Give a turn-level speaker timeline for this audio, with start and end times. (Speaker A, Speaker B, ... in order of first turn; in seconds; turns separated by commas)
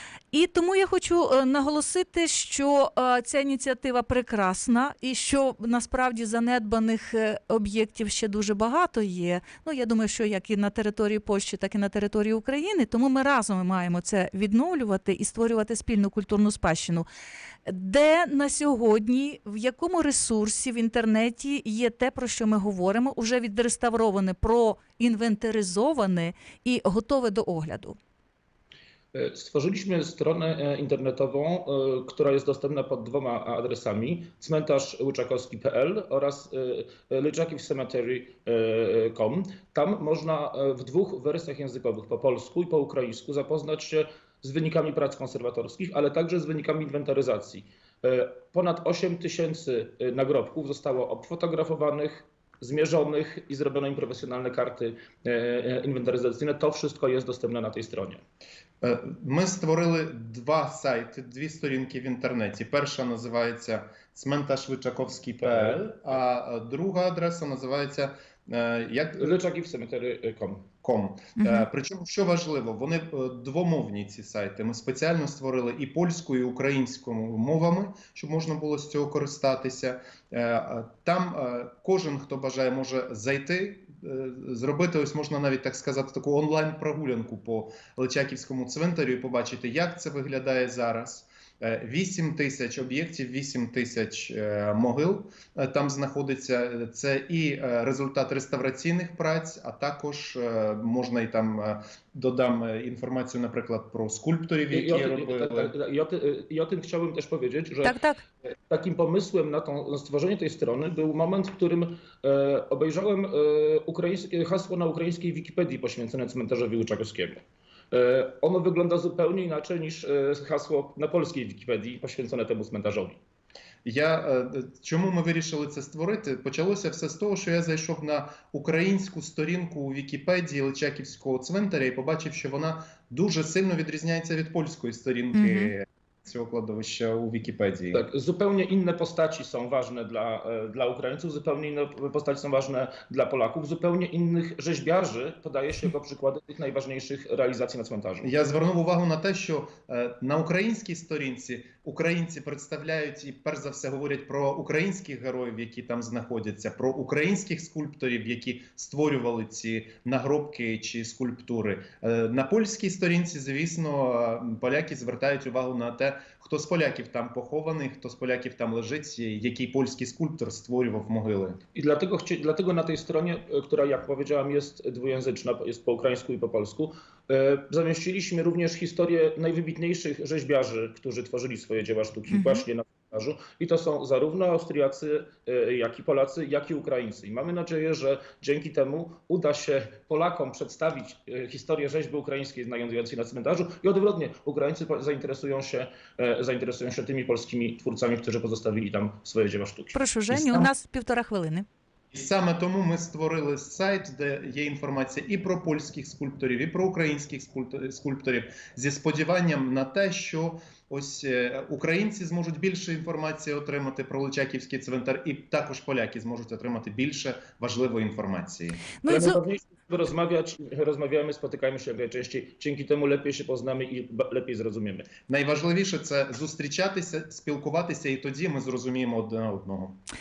Speaker A: 0.3-17.1, Speaker A: 17.6-28.0, Speaker B: 29.1-58.2, Speaker C: 58.8-69.4, Speaker B: 65.4-65.8, Speaker B: 69.2-70.7, Speaker C: 70.8-105.7, Speaker A: 71.4-71.7, Speaker B: 104.7-117.4, Speaker A: 107.8-108.2, Speaker B: 117.9-123.2, Speaker C: 123.8-138.0, Speaker A: 135.3-135.7, Speaker B: 137.9-148.3, Speaker C: 148.2-171.6, Speaker B: 171.7-200.0, Speaker A: 182.3-182.6, Speaker A: 199.9-201.6, Speaker C: 200.3-200.7, Speaker C: 202.1-218.9, Speaker A: 219.0-219.4, Speaker B: 219.1-225.1, Speaker C: 225.3-230.0